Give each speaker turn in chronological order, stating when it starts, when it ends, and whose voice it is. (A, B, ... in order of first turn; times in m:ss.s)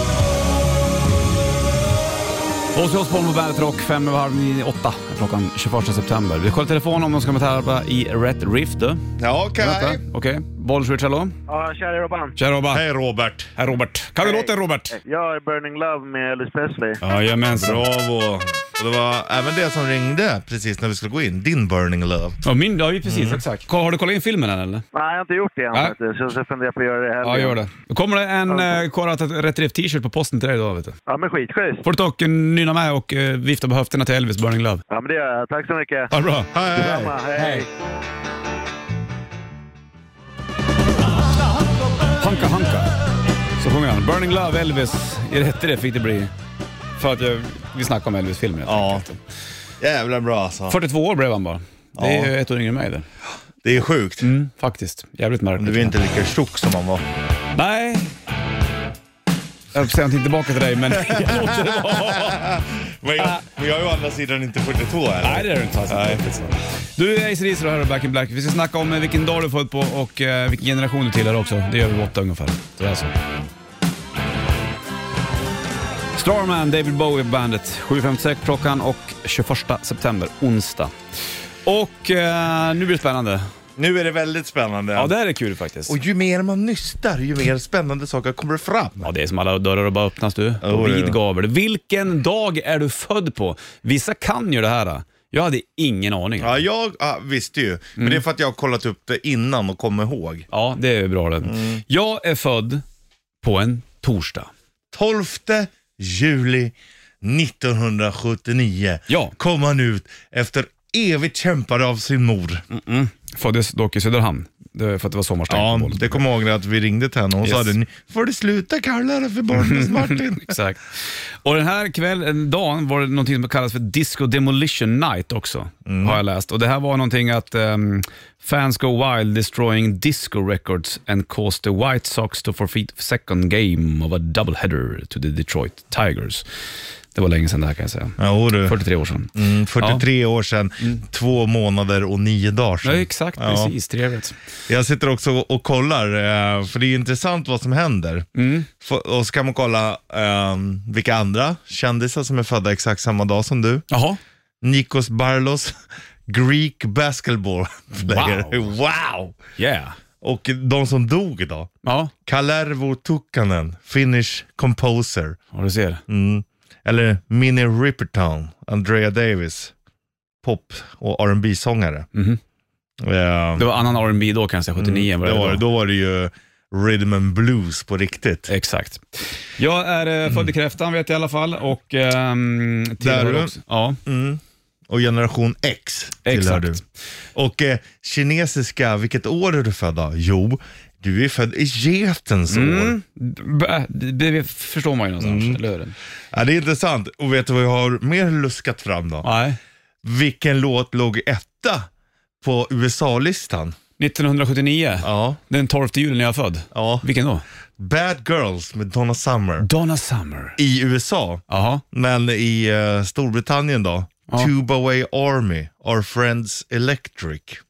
0:02.7-0:09.0 A
0:09.2-0:10.0 B
0:09.6-0:11.4 A
0:11.5-0:12.4 C
0:12.4-0:12.8 A
0:12.7-0:13.5 B
0:13.6-0:15.0 A
0:14.2-0:17.0 C
0:17.0-0:17.8 A
0:17.5-0:22.4 B
0:22.4-0:24.8 A
0:23.0-0:23.4 B
0:24.9-0:27.6 C
0:27.2-0:31.0 A
0:28.5-0:28.8 C
0:31.1-0:31.8 C
0:31.8-0:34.8 A
0:34.9-0:36.1 C
0:36.1-0:37.6 A
0:36.5-0:37.1 B
0:36.7-0:37.7 C
0:42.2-0:42.9 A
0:43.6-0:46.3 A
0:47.0-0:49.2 A
0:48.6-0:49.0 B
0:49.8-0:50.8 B
0:50.7-0:53.0 A
0:52.0-0:52.3 B
0:53.6-0:54.3 B
0:54.2-0:56.0 A
0:55.6-0:57.0 B
0:57.5-0:58.1 A
0:59.7-1:02.5 A
1:00.9-1:06.3 B
1:05.2-1:13.1 A
1:16.2-1:20.9 A
1:21.6-1:23.4 A
1:23.8-1:25.1 B
1:24.9-1:26.0 A
1:25.9-1:29.1 B
1:29.0-1:36.6 A
1:30.6-1:31.2 B
1:36.4-1:40.4 B
1:40.5-1:42.8 A
1:41.4-1:41.8 B
1:43.4-1:44.5 A
1:44.9-1:52.6 B
1:49.1-1:49.3 A
1:52.7-1:56.2 A
1:55.5-2:00.5 B
1:57.4-1:57.7 A
1:59.5-2:16.4 A
2:05.8-2:06.2 B
2:17.1-2:20.0 A
2:18.2-2:18.8 B
2:19.3-2:23.7 B
2:22.8-2:24.4 A
2:24.7-2:28.3 B
2:28.3-2:28.7 A
2:28.8-2:33.8 B
2:33.9-2:34.2 A
2:34.6-2:39.3 B
2:38.0-2:38.7 A
2:39.6-2:40.0 A
2:40.2-2:41.7 B
2:41.8-2:42.1 A
2:42.2-2:45.4 B
2:45.5-2:46.0 A
2:46.1-2:49.7 B
2:50.4-2:52.1 B
2:52.1-2:52.4 A
2:53.0-2:53.7 B
2:53.6-2:55.6 A
2:54.8-2:58.5 B
2:58.5-3:04.0 A
3:03.0-3:03.5 B
3:04.0-3:06.8 B
3:06.2-3:06.8 A
3:07.3-3:13.0 B
3:12.5-3:16.0 A
3:15.2-3:15.6 B
3:16.3-3:19.3 B
3:19.2-3:19.6 A
3:20.0-3:21.9 B
3:22.4-3:23.7 B
3:24.0-3:27.4 A
3:25.0-3:25.4 B
3:26.7-3:27.0 B
3:27.8-3:29.7 B
3:29.6-3:30.6 A
3:30.6-3:37.6 B
3:31.5-3:31.8 A